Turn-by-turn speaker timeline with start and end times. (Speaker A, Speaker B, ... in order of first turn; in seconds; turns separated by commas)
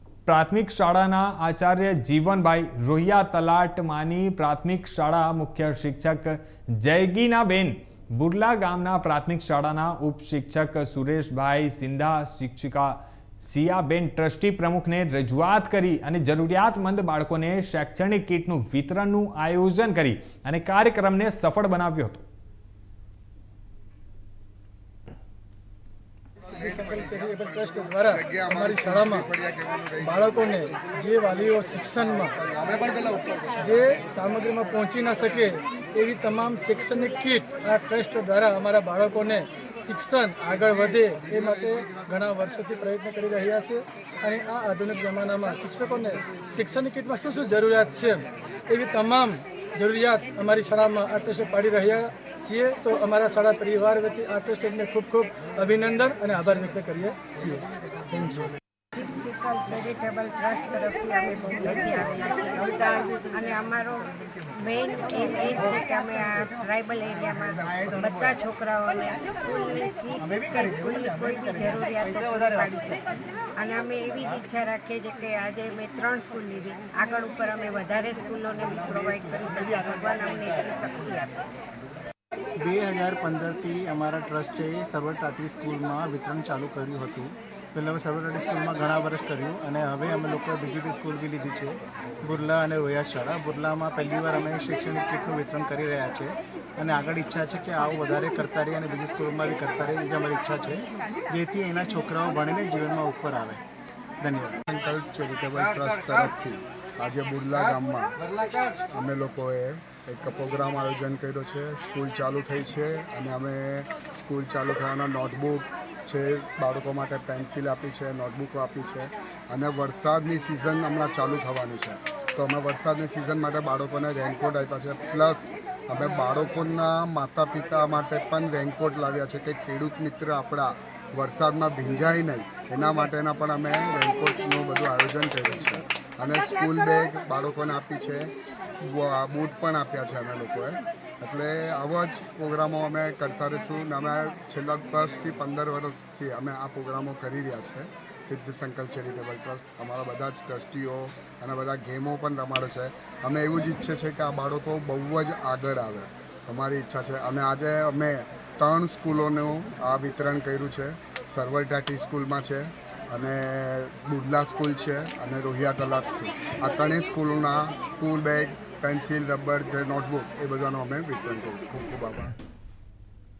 Speaker A: 0.2-22.2, Speaker B: 26.5-29.2, Speaker C: 26.6-30.7, Speaker B: 30.0-32.3, Speaker C: 31.9-34.0, Speaker B: 33.6-58.5, Speaker C: 41.2-42.0, Speaker D: 58.9-81.5, Speaker E: 82.6-103.6, Speaker E: 104.2-104.6, Speaker C: 104.7-172.3